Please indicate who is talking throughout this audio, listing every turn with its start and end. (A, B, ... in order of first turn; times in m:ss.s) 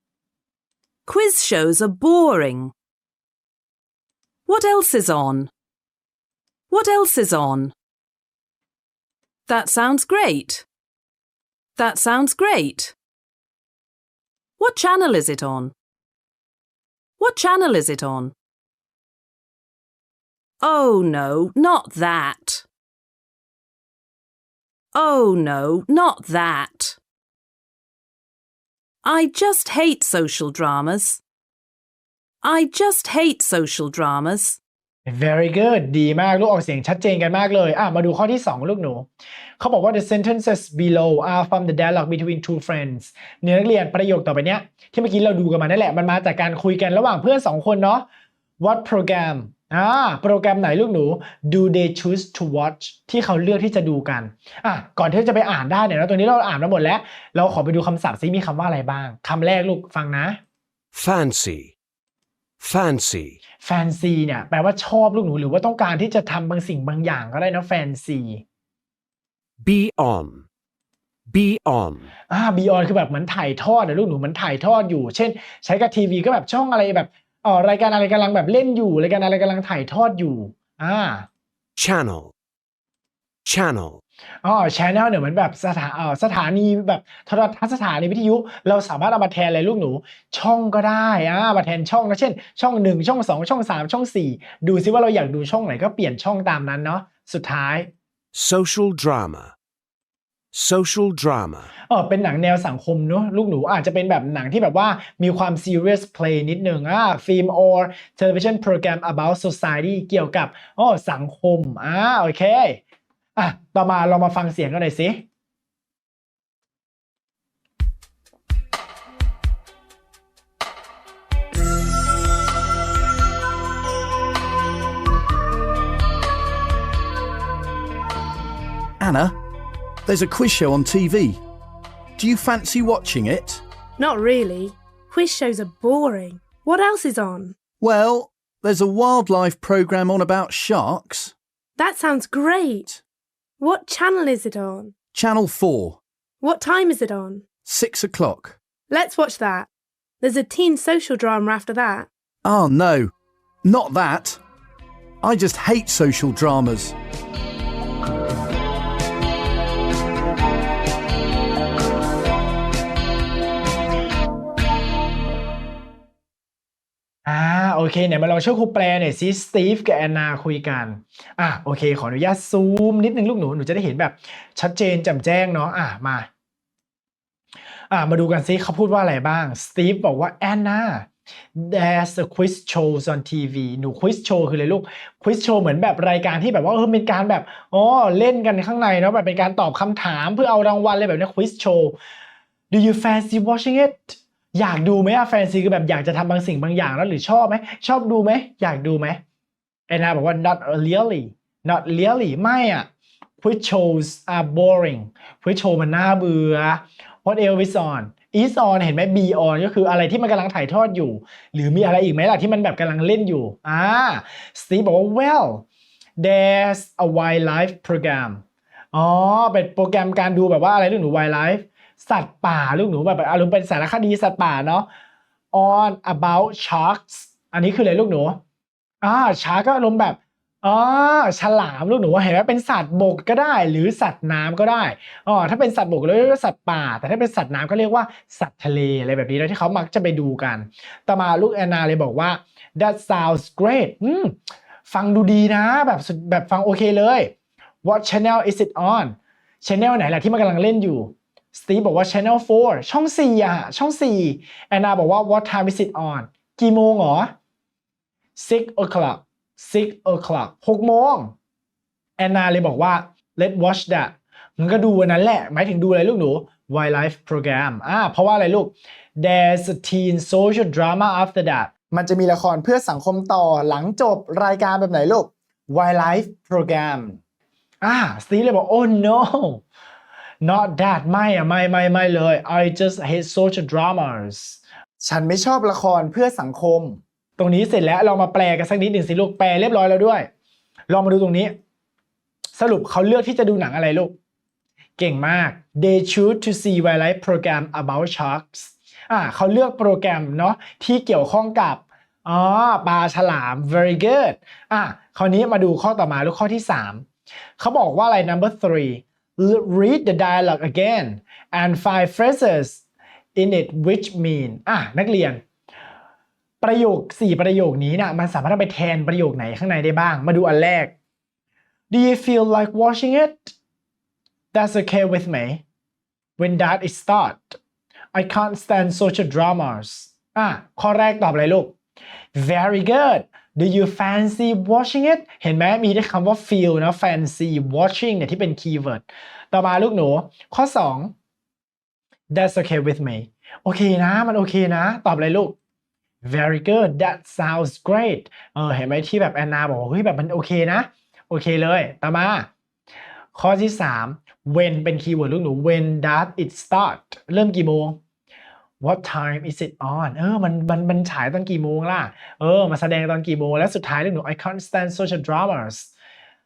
0:01.1-0:02.7 A
0:04.5-0:05.5 A
0:06.7-0:07.7 A
0:09.5-0:10.6 A
0:11.8-0:13.0 A
0:14.6-0:15.7 A
0:17.2-0:18.3 A
0:20.6-0:22.6 A
0:24.9-0:27.0 A
0:29.0-0:31.2 A
0:32.4-0:34.6 A
0:35.1-0:39.1 B
0:39.6-0:48.1 B
0:48.6-1:00.4 B
1:00.9-1:01.7 C
1:02.6-1:03.4 C
1:03.6-1:08.4 B
1:09.6-1:10.5 C
1:11.3-1:12.1 C
1:12.3-1:21.3 B
1:21.8-1:22.3 C
1:23.5-1:24.0 C
1:24.4-1:37.9 B
1:38.3-1:39.5 C
1:40.5-1:41.7 C
1:41.9-1:52.8 B
1:53.4-1:55.2 B
2:09.0-2:09.4 D
2:10.1-2:11.4 D
2:12.2-2:13.6 D
2:14.0-2:17.6 E
2:17.8-2:21.3 D
2:21.8-2:22.9 E
2:23.6-2:25.0 E
2:25.1-2:26.0 D
2:26.4-2:27.4 E
2:27.7-2:28.6 D
2:28.9-2:29.7 E
2:30.2-2:32.1 E
2:32.4-2:33.1 D
2:33.6-2:34.4 D
2:35.2-2:37.0 D
2:47.3-2:56.3 B
2:57.9-3:12.0 B
3:12.7-3:19.2 B
3:19.9-3:22.9 B
3:23.4-3:35.6 B
3:36.2-3:38.4 B
3:38.9-3:44.9 B
3:45.5-3:48.4 B
3:49.0-4:17.3 B
4:18.4-4:21.3 B
4:22.2-4:37.2 B
4:37.8-4:39.6 B
4:40.4-4:50.3 B
4:50.9-4:51.6 B
4:52.6-4:54.1 B
4:55.0-5:07.1 B
5:07.6-5:12.8 B
5:13.4-5:15.4 B
5:16.6-5:20.9 B
5:21.9-5:23.5 B
5:24.5-5:25.6 B
5:26.4-5:27.6 B
5:28.1-5:31.8 B
5:32.4-5:41.1 B
5:42.3-5:45.6 B
5:46.2-5:52.5 B
5:53.4-5:58.0 B
5:58.8-6:05.9 B